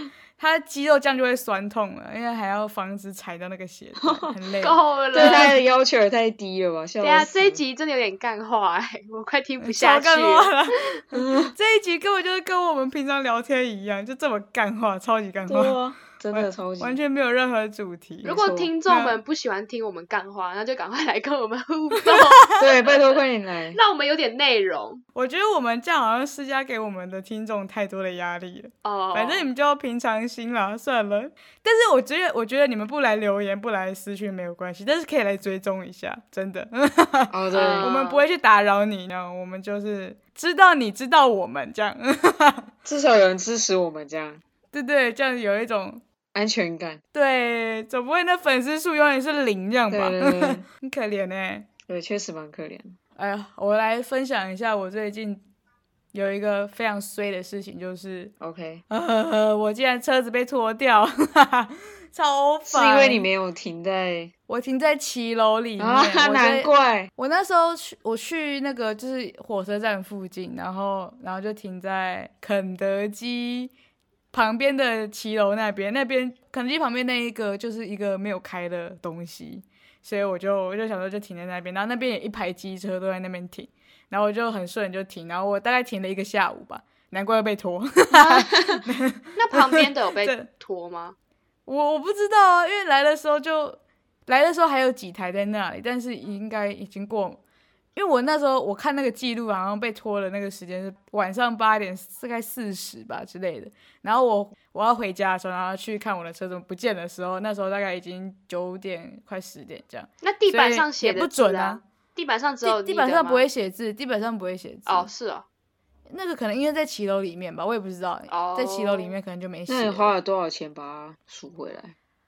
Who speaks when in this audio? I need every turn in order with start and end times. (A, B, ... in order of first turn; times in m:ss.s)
0:00.4-0:05.5 A
0:04.0-0:04.3 B
0:04.6-0:05.6 C
0:05.1-0:07.6 B
0:07.0-0:10.5 C
0:09.6-0:15.8 A
0:11.1-0:11.5 B
0:15.4-0:17.0 B
0:16.3-0:18.3 A
0:18.2-0:18.7 B
0:18.2-0:23.0 C
0:18.9-0:19.2 A
0:22.6-0:23.8 B
0:23.7-0:25.0 C
0:25.1-0:42.7 A
0:28.8-0:29.5 C
0:37.3-0:37.9 B
0:37.5-0:38.3 C
0:42.9-0:44.4 B
0:44.7-0:46.0 A
0:46.3-0:47.0 B
0:47.1-0:51.7 A
0:49.9-0:50.6 B
0:51.9-0:53.0 B
0:53.2-0:55.4 A
0:56.1-0:58.3 A
0:58.4-0:58.8 B
0:58.9-1:03.3 A
1:02.7-1:04.3 B
1:04.5-1:13.7 A
1:05.8-1:07.1 B
1:14.3-1:30.5 A
1:29.4-1:31.2 C
1:31.7-1:37.4 A
1:38.0-1:51.8 A
1:50.2-1:53.5 C
1:52.6-1:55.1 A
1:54.9-1:55.4 C
1:56.1-2:00.1 A
1:58.3-1:59.2 C
1:59.7-2:02.0 B